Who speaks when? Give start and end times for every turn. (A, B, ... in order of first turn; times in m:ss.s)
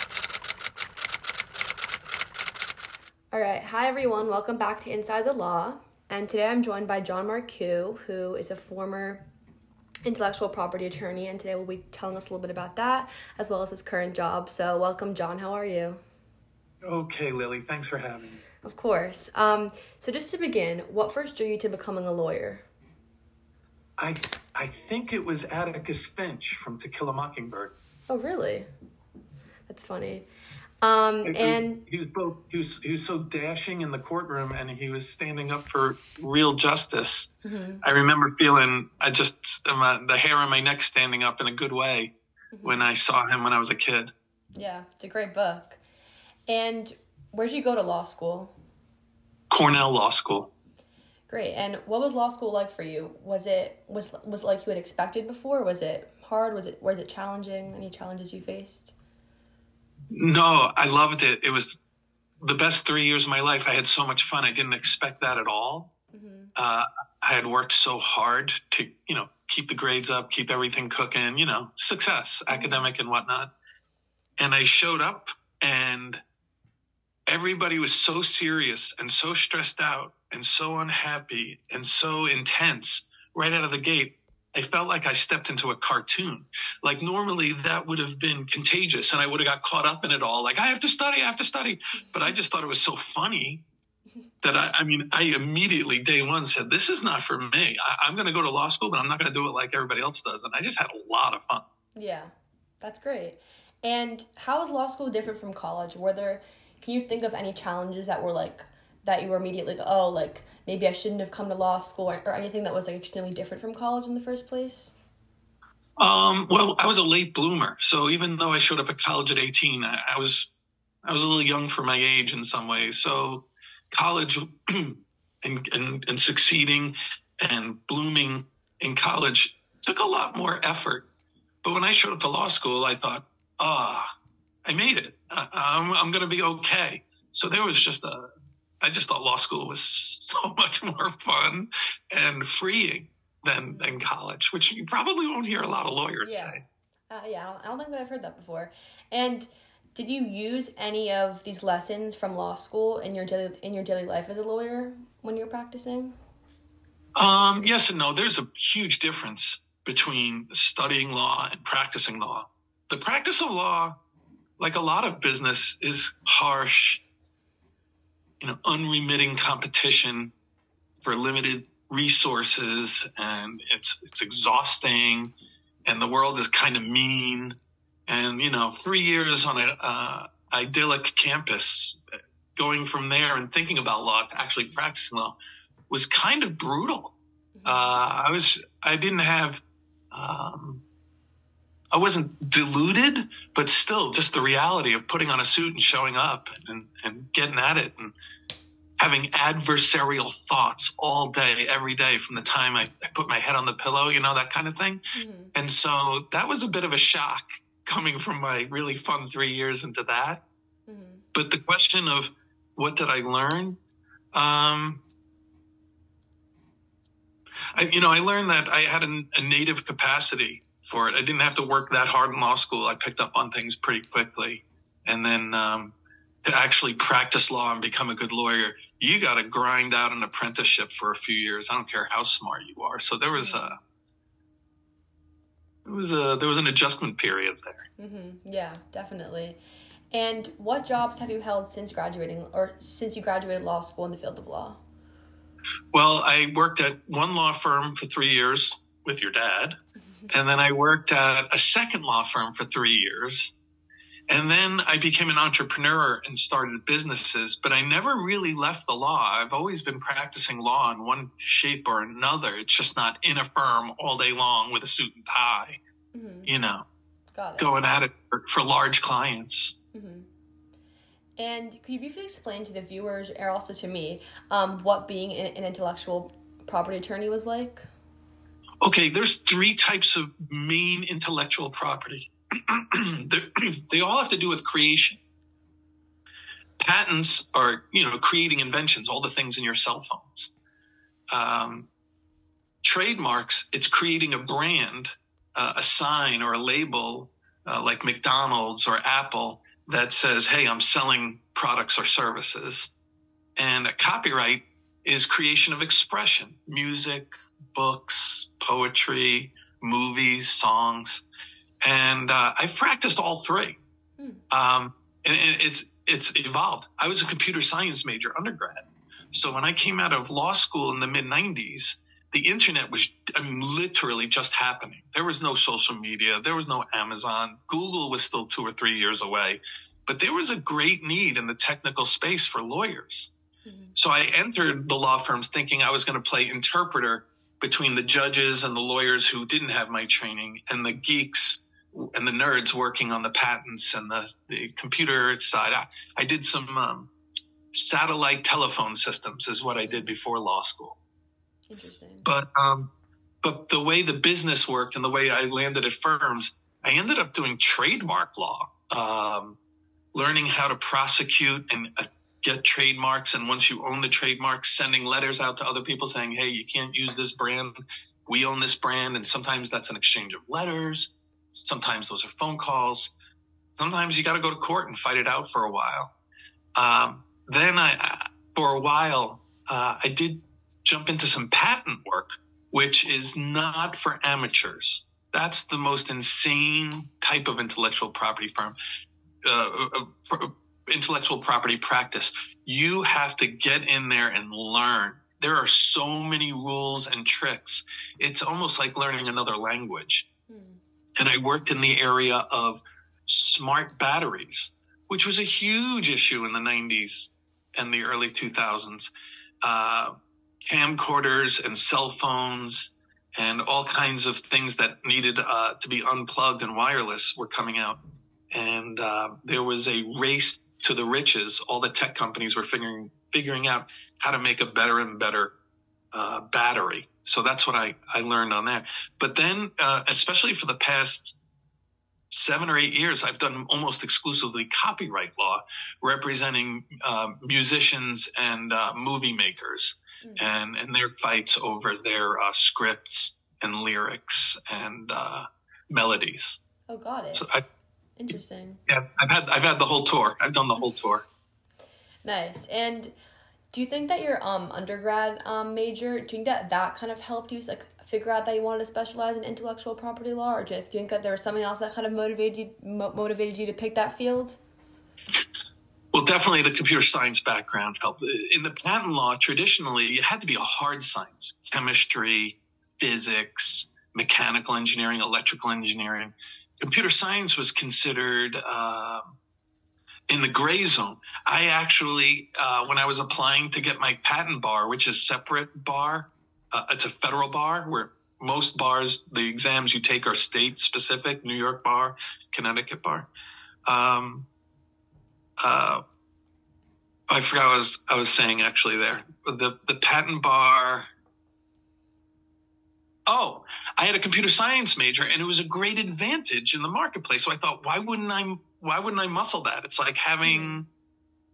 0:03.3-0:09.2 A
0:10.0-0:16.0 A
0:16.8-0:18.4 B
0:18.6-0:22.6 A
0:24.0-0:27.7 B
0:28.1-0:28.7 A
0:29.7-0:30.2 A
0:30.8-0:31.8 A
0:31.2-0:37.3 B
0:37.4-0:37.8 A
0:37.8-0:44.1 B
0:42.5-0:42.9 A
0:44.5-0:45.8 A
0:46.5-0:48.5 A
0:49.5-0:50.5 B
0:51.3-0:58.9 A
1:00.1-1:01.8 B
1:02.4-1:05.9 B
1:06.1-1:06.5 A
1:06.5-1:13.5 B
1:12.5-1:12.9 A
1:14.4-1:16.2 B
1:17.3-1:33.6 B
1:32.0-1:32.3 A
1:34.4-1:41.6 B
1:42.0-1:54.9 A
1:56.0-2:00.5 B
2:01.0-2:11.0 B
2:11.6-2:14.0 B
2:14.6-2:18.3 B
2:18.8-2:26.6 B
2:23.7-2:24.0 A
2:26.2-2:26.6 A
2:27.1-2:36.2 A
2:37.2-2:44.0 B
2:44.6-2:47.0 B
2:48.4-2:50.3 B
2:51.0-2:55.3 B
2:55.8-2:57.6 B
2:58.1-3:02.0 B
3:02.6-3:05.4 B
3:05.9-3:09.6 B
3:07.6-3:08.0 A
3:10.1-3:10.8 B
3:11.9-3:18.1 B
3:19.0-3:25.0 B
3:25.1-3:25.5 A
3:25.5-3:30.4 B
3:30.9-3:31.2 A
3:31.3-3:33.8 B
3:34.3-3:35.0 B
3:37.7-3:53.8 B
3:53.3-3:53.8 A
3:55.8-3:57.8 B
3:58.0-3:59.6 A
4:00.1-4:04.8 A
4:05.9-4:09.8 B
4:10.3-4:13.5 B
4:14.3-4:25.8 B
4:26.1-4:26.5 A
4:26.4-4:26.8 B
4:27.3-4:27.7 A
4:27.6-4:29.8 B
4:29.9-4:30.3 A
4:31.4-4:37.9 A
4:38.8-4:45.2 B
4:46.8-4:50.5 B
4:51.3-4:51.9 B
4:52.8-5:02.9 B
5:03.6-5:11.2 B
5:11.8-5:13.8 B
5:14.5-5:33.3 B
5:33.6-5:34.0 A
5:33.9-5:47.1 B
5:47.7-5:51.0 B
5:49.8-5:50.1 A
5:51.7-5:52.2 A
5:52.2-5:52.9 B
5:53.4-5:59.6 B
6:00.1-6:13.1 B
6:13.8-6:16.1 B
6:16.7-6:28.8 B
6:29.4-6:40.2 B
6:40.5-6:40.8 A
6:41.2-6:49.1 B
6:49.6-6:50.1 B
6:50.6-6:58.0 B
6:58.5-7:05.5 B
7:06.1-7:11.4 B
7:12.3-7:26.6 B
7:20.2-7:20.5 A
7:26.9-7:27.5 A
7:27.3-7:27.6 B
7:28.2-7:28.8 A
7:28.9-7:31.2 B
7:32.2-7:33.1 A
7:33.7-7:44.6 A
7:46.1-7:59.4 B
8:00.3-8:13.3 B
8:13.8-8:14.5 B
8:15.6-8:16.0 B
8:17.3-8:21.1 B
8:23.3-8:30.9 B
8:30.4-8:30.8 A